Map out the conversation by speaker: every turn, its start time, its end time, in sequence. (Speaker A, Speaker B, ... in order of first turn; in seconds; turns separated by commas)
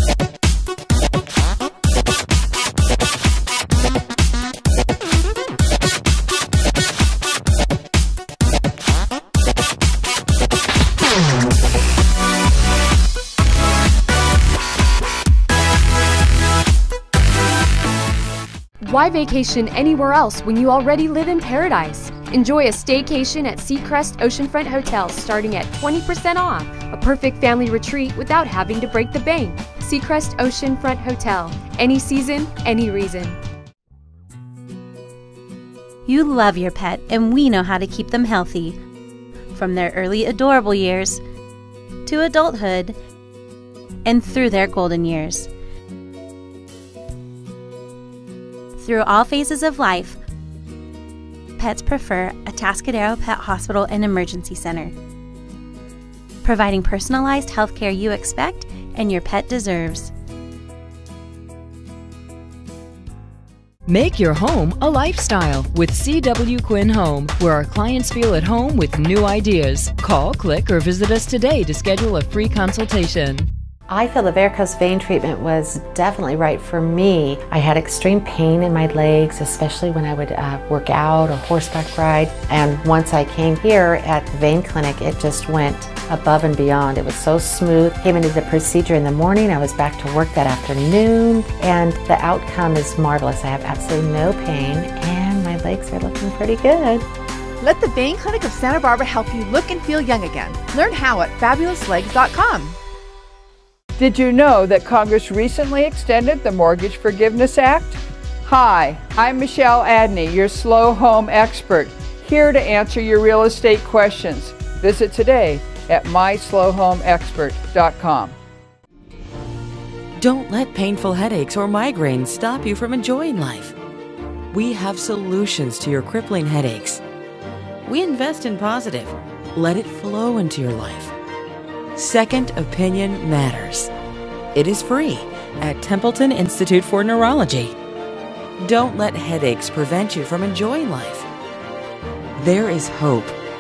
Speaker A: 18.8-33.4, Speaker B: 36.1-38.8, Speaker B: 39.5-41.2, Speaker B: 42.1-43.0, Speaker B: 44.0-45.5, Speaker B: 48.8-50.2, Speaker B: 51.6-54.9, Speaker B: 56.4-60.1, Speaker C: 63.9-73.5, Speaker D: 73.9-97.1, Speaker E: 97.6-102.8, Speaker F: 104.0-118.4, Speaker G: 120.2-123.8, Speaker G: 124.5-127.0, Speaker G: 127.8-131.1, Speaker G: 132.0-133.9, Speaker G: 134.6-137.7, Speaker G: 138.6-141.3, Speaker G: 142.4-143.4